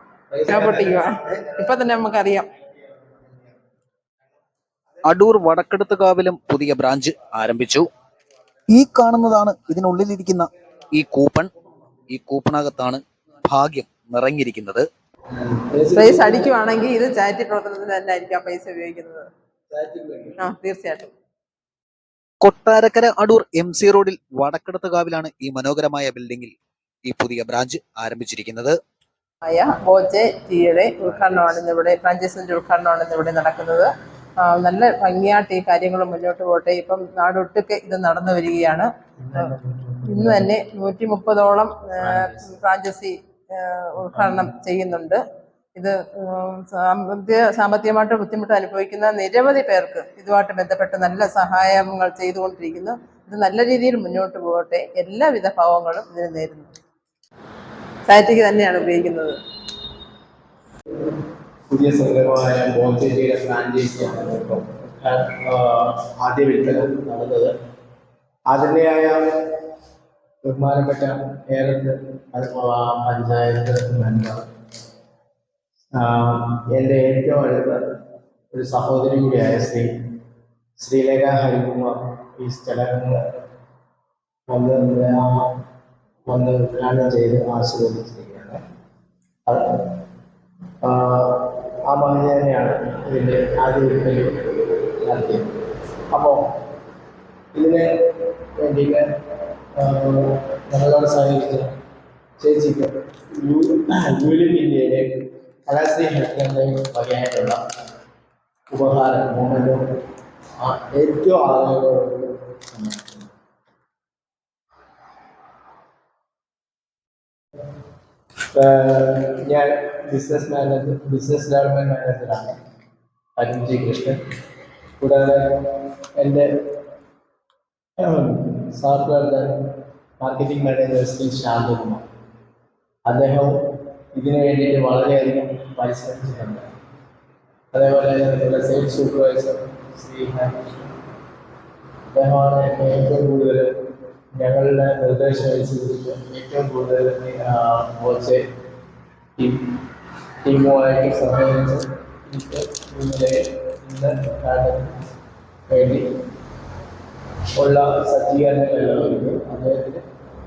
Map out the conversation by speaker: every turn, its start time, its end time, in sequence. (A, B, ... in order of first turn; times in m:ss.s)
0:00.3-0:01.6 A
0:00.5-0:02.5 B
0:05.1-0:07.9 C
0:08.7-0:11.5 C
0:12.1-0:14.9 C
0:15.3-0:16.5 A
0:15.9-0:19.3 B
0:19.7-0:20.4 A
0:20.4-0:21.1 B
0:22.4-0:26.5 C
0:27.1-0:28.8 C
0:29.4-0:39.4 B
0:39.2-0:40.5 A
0:40.1-0:45.2 B
0:42.0-0:42.6 A
0:44.1-0:44.5 A
0:45.8-0:56.8 B
0:58.1-0:59.4 B
1:01.7-1:07.5 A
1:08.5-1:09.5 A
1:10.4-1:14.5 A
1:15.9-1:18.0 A
1:18.5-1:19.9 A
1:20.8-1:23.2 A
1:24.5-1:25.6 A
1:26.3-1:28.6 A
1:29.5-1:30.0 A
1:30.8-1:35.5 A
1:36.1-1:36.6 A
1:37.5-1:39.2 A
1:39.8-1:41.8 A
1:42.4-1:47.6 A
1:48.7-1:49.8 A
1:50.6-1:53.3 A
1:58.5-2:02.6 A
2:03.4-2:04.2 A
2:05.0-2:06.7 A
2:08.0-2:12.0 A
2:13.1-2:16.7 A
2:17.7-2:21.0 A
2:22.1-2:28.5 A
2:29.4-2:29.8 A
2:30.4-2:35.0 A
2:35.7-2:36.2 A
2:37.6-2:40.0 A